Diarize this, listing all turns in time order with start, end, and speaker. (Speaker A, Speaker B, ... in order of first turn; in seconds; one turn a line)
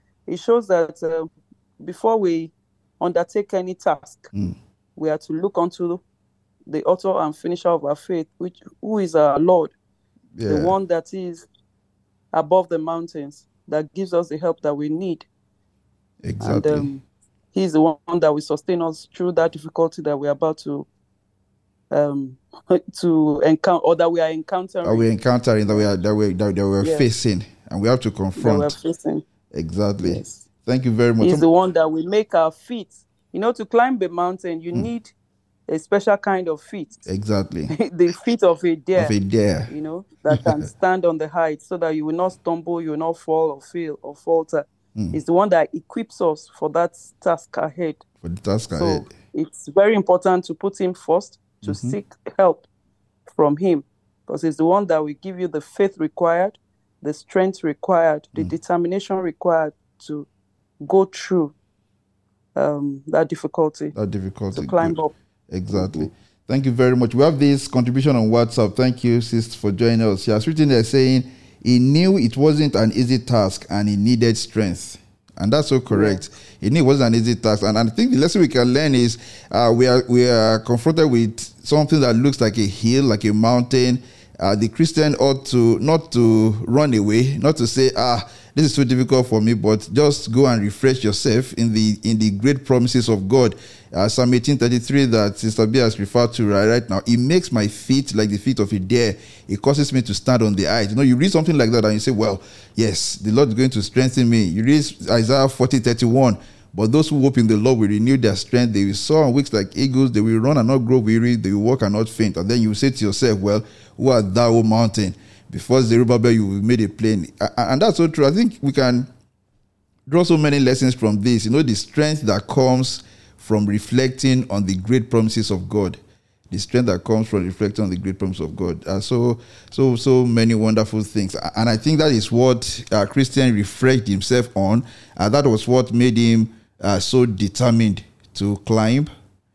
Speaker A: 0.3-4.3
Speaker A: 5.0-6.0
Speaker A: 6.7-9.7
Speaker B: 10.4-10.8
Speaker A: 10.5-11.5
Speaker A: 12.3-15.3
Speaker B: 16.2-16.9
Speaker A: 16.4-20.9
Speaker A: 21.9-25.1
Speaker B: 24.8-28.8
Speaker A: 26.8-27.1
Speaker A: 28.4-29.2
Speaker B: 29.5-31.5
Speaker A: 30.0-30.4
Speaker A: 31.2-35.1
Speaker A: 35.7-37.1
Speaker B: 37.1-37.7
Speaker A: 37.7-39.2
Speaker B: 39.0-39.7
Speaker A: 39.7-48.0
Speaker B: 48.2-49.1
Speaker A: 48.7-52.7
Speaker B: 51.6-52.0
Speaker A: 53.3-60.3
Speaker A: 60.8-61.5
Speaker A: 62.5-63.9
Speaker B: 63.9-65.0
Speaker A: 64.5-65.1
Speaker B: 65.5-119.1
Speaker A: 65.7-66.1
Speaker A: 75.9-76.3
Speaker B: 120.1-139.1